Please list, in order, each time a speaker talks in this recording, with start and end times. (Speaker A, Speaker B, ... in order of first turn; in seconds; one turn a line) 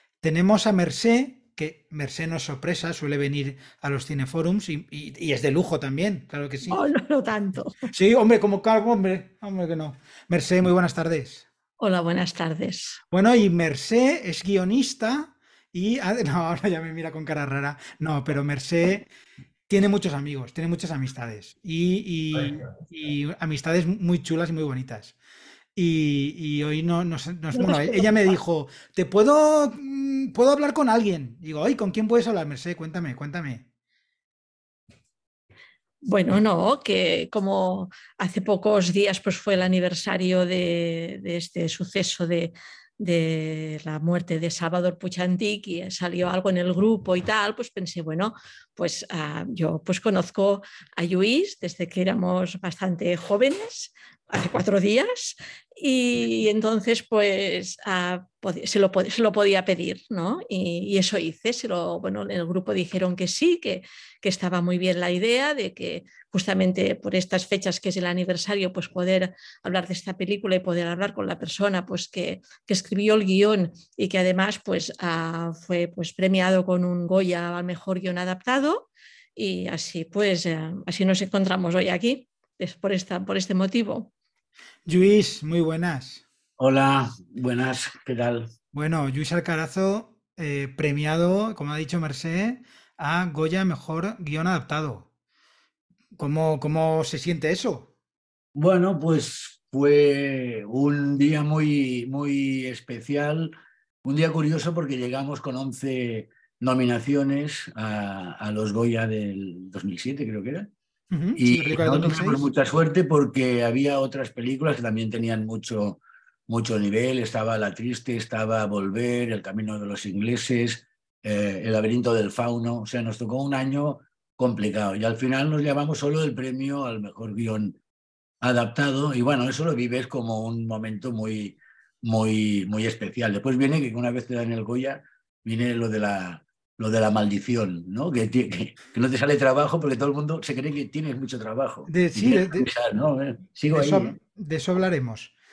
Speaker A: 0.2-6.8
Speaker B: 6.7-7.9
Speaker A: 7.9-11.4
Speaker B: 11.8-13.0
Speaker A: 13.1-19.0
Speaker A: 19.7-25.1
Speaker A: 25.8-33.6
Speaker B: 27.5-28.3
Speaker B: 36.0-84.1
Speaker A: 84.8-86.2
Speaker C: 86.6-88.5
Speaker A: 88.7-95.1
Speaker A: 96.2-97.9
Speaker C: 98.5-110.7
Speaker A: 111.1-112.4
Speaker C: 111.4-127.8
Speaker C: 128.4-144.2
Speaker A: 141.9-142.7
Speaker A: 143.7-145.3